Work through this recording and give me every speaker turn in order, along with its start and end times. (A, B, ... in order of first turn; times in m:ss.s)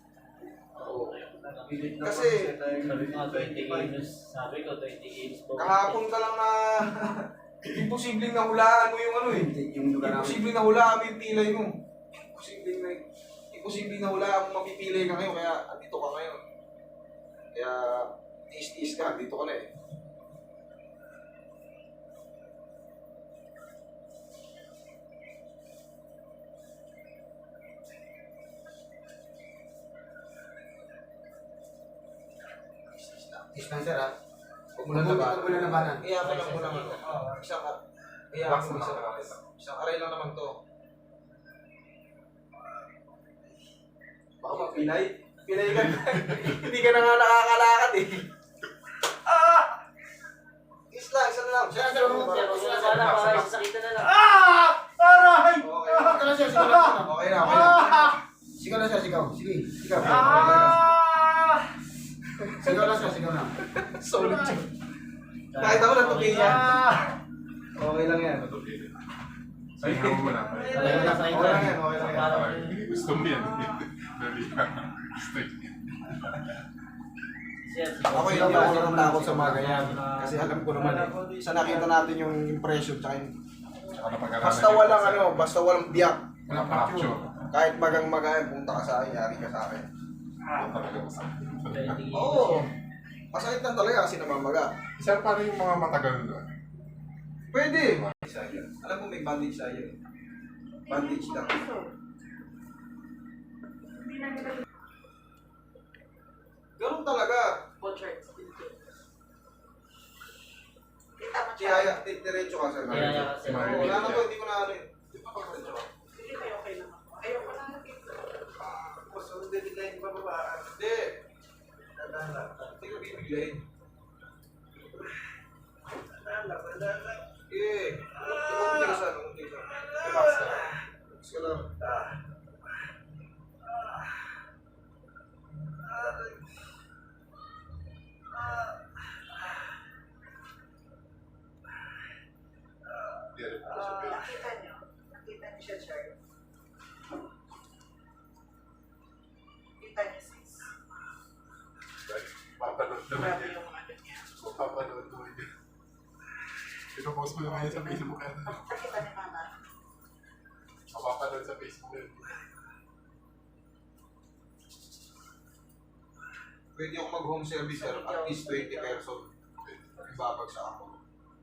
0:00.7-0:02.1 A
0:00.8-0:01.2 B
0:01.4-0:04.0 C
0:02.0-0:02.4 B
0:02.8-0:06.0 A
0:05.6-0:16.4 B
0:09.3-0:10.5 D
0:17.5-0:19.7 B
0:33.1-0:33.4 B
0:33.4-0:34.1 D
0:34.8-0:37.8 B
0:34.9-0:36.2 D
0:36.2-0:37.1 A
0:37.0-0:37.4 C
0:38.3-0:40.5 B
0:38.4-0:39.4 E
0:44.4-0:48.2 B
0:45.8-0:46.2 E
0:49.3-0:49.6 C
0:50.9-0:52.6 B
0:51.7-0:53.4 D
0:52.2-0:54.2 A
0:52.9-0:53.5 E
0:54.1-0:56.8 C
0:55.6-0:58.2 B
0:56.2-0:57.6 D
0:57.4-0:58.1 C
0:58.6-1:00.0 D
0:59.8-1:00.8 B
1:00.0-1:01.6 C
1:00.0-1:00.7 E
1:02.6-1:03.0 B
1:02.6-1:03.5 D
1:03.8-1:04.6 B
1:04.1-1:04.5 C
1:04.2-1:04.6 E
1:05.5-1:06.1 D
1:05.6-1:06.7 B
1:05.6-1:06.6 A
1:06.2-1:07.1 C
1:07.8-1:08.4 B
1:08.3-1:09.0 E
1:09.8-1:16.1 E
1:10.4-1:11.4 C
1:10.7-1:12.8 A
1:11.0-1:12.3 D
1:11.2-1:12.0 B
1:17.6-1:20.2 A
1:18.1-1:23.3 B
1:18.2-1:19.5 D
1:20.0-1:22.1 C
1:23.9-1:25.5 E
1:24.4-1:26.4 B
1:26.5-1:27.3 E
1:26.6-1:27.1 D
1:27.5-1:29.8 B
1:30.4-1:30.7 C
1:30.5-1:32.0 E
1:31.7-1:32.7 A
1:32.1-1:32.7 B
1:33.3-1:34.7 B
1:35.0-1:36.5 E
1:37.5-1:39.9 B
1:37.9-1:38.1 E
1:40.8-1:41.9 F
1:40.9-1:41.6 B
1:44.0-1:44.6 F
1:46.8-1:47.6 B
1:47.8-1:48.8 F
1:51.2-1:52.0 F
1:51.6-1:55.9 B
1:52.8-1:54.3 E
1:52.9-1:54.2 A
1:56.1-1:58.2 F
1:58.7-2:00.8 C
2:00.7-2:01.2 B
2:01.9-2:02.7 C
2:02.6-2:03.6 B
2:05.9-2:07.3 C
2:07.5-2:09.9 B
2:08.1-2:09.0 C
2:09.8-2:10.8 C
2:10.0-2:10.8 E
2:11.1-2:11.7 B
2:11.8-2:12.9 C
2:13.6-2:14.3 C
2:15.8-2:16.6 C
2:18.3-2:19.6 C
2:22.8-2:24.4 C
2:23.3-2:24.4 E
2:24.0-2:26.2 F
2:29.8-2:30.7 F
2:32.0-2:33.5 E
2:33.1-2:34.3 F
2:34.4-2:35.5 E
2:36.9-2:38.8 E
2:38.4-2:39.5 F
2:40.9-2:42.4 E
2:46.7-2:49.3 B
2:47.7-2:49.0 F
2:49.6-2:50.2 E
2:50.1-2:51.0 B